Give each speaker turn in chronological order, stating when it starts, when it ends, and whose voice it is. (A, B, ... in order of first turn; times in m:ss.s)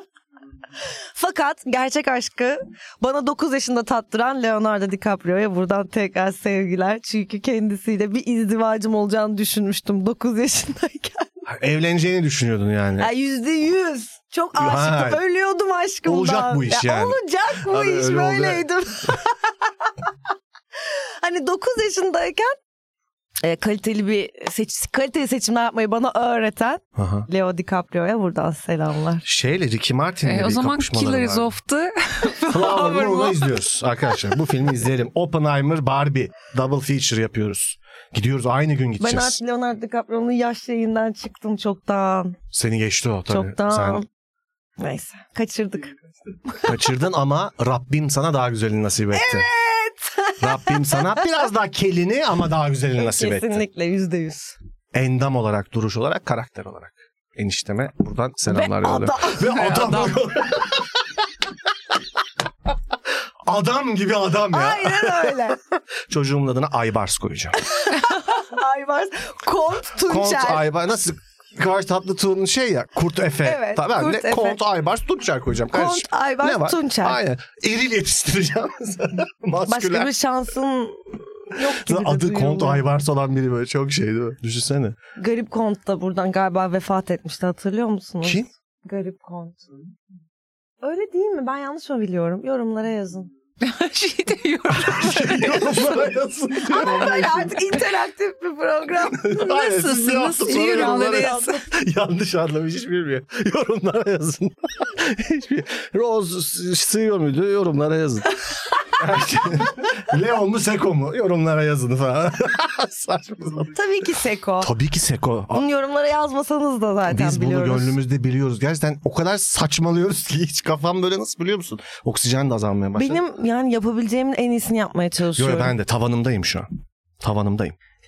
0:01.1-0:11.3 A
0:11.4-0:13.1 B
0:13.0-0:19.3 A
0:14.6-0:15.2 B
0:16.0-0:19.2 B
0:20.8-0:22.6 A
0:23.4-0:29.2 A
0:27.0-0:27.3 B
0:29.2-0:31.5 B
0:30.2-0:33.6 C
0:32.5-0:39.4 B
0:39.0-0:42.4 A
0:42.5-0:44.0 B
0:43.3-0:44.0 A
0:44.8-0:46.0 A
0:46.6-0:49.5 B
0:49.1-0:51.3 A
0:50.4-0:53.6 B
0:53.0-0:54.6 A
0:54.9-1:01.2 B
0:58.5-0:59.9 A
0:59.5-1:00.2 C
1:03.4-1:05.5 B
1:04.5-1:05.6 A
1:06.1-1:07.6 B
1:07.6-1:10.6 A
1:10.0-1:20.1 B
1:13.4-1:14.6 A
1:15.7-1:17.2 A
1:19.7-1:22.8 A
1:21.6-1:25.0 B
1:25.2-1:29.6 A
1:28.2-1:28.5 B
1:30.8-1:33.3 A
1:33.6-1:35.9 C
1:34.7-1:37.6 B
1:36.6-1:41.6 A
1:39.1-1:53.8 B
1:39.4-1:41.6 C
1:53.7-1:54.7 A
1:54.6-1:55.6 B
1:55.5-1:58.0 A
1:57.1-2:03.2 B
2:03.0-2:05.7 A
2:05.4-2:06.7 B
2:07.2-2:07.7 B